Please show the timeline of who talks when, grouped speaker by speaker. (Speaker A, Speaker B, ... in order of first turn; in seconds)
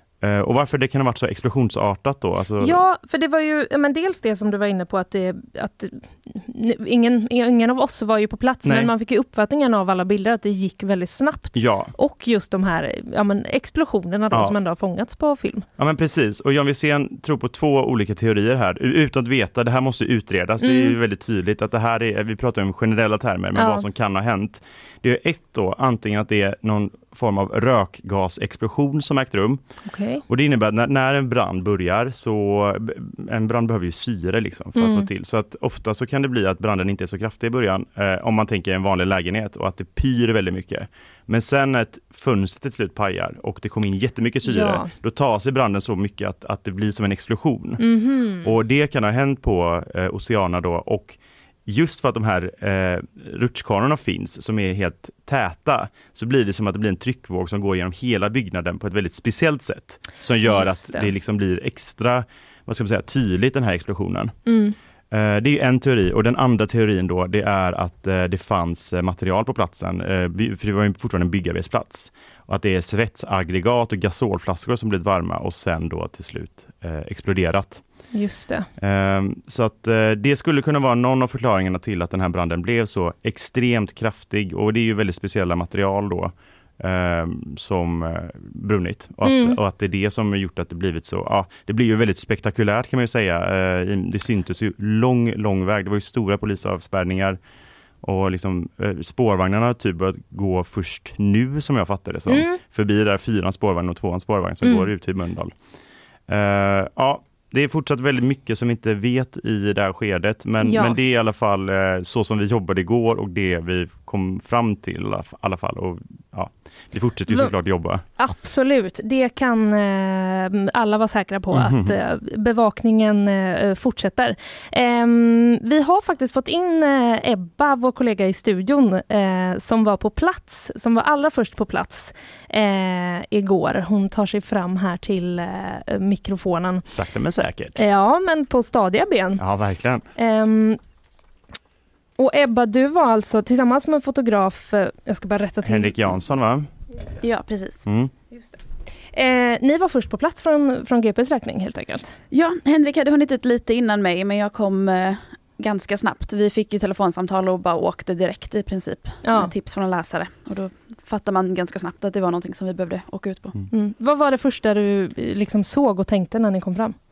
Speaker A: 0.2-2.8, 8.7-8.9, 11.6-11.9, 15.8-29.6, 30.3-47.8, 48.4-64.4, 65.1-77.8, 78.8-97.4, 98.0-105.5, 106.3-118.0, 121.5-122.0, 136.9-137.8, 139.4-140.1, 145.6-146.7, 147.8-148.1
Speaker B: 2.6-15.7, 20.6-21.0, 23.6-23.9, 29.9-30.2, 34.8-35.1, 44.4-44.9, 47.8-48.5, 60.5-61.1, 64.5-64.8, 78.1-78.7, 89.2-89.6, 102.3-102.6, 104.6-104.9, 110.6-111.0, 117.3-136.8, 137.8-139.4, 140.2-140.8, 142.2-145.9, 148.3-148.6, 149.1-152.1, 159.2-159.5, 163.7-167.0
Speaker C: 147.2-147.8, 152.3-163.6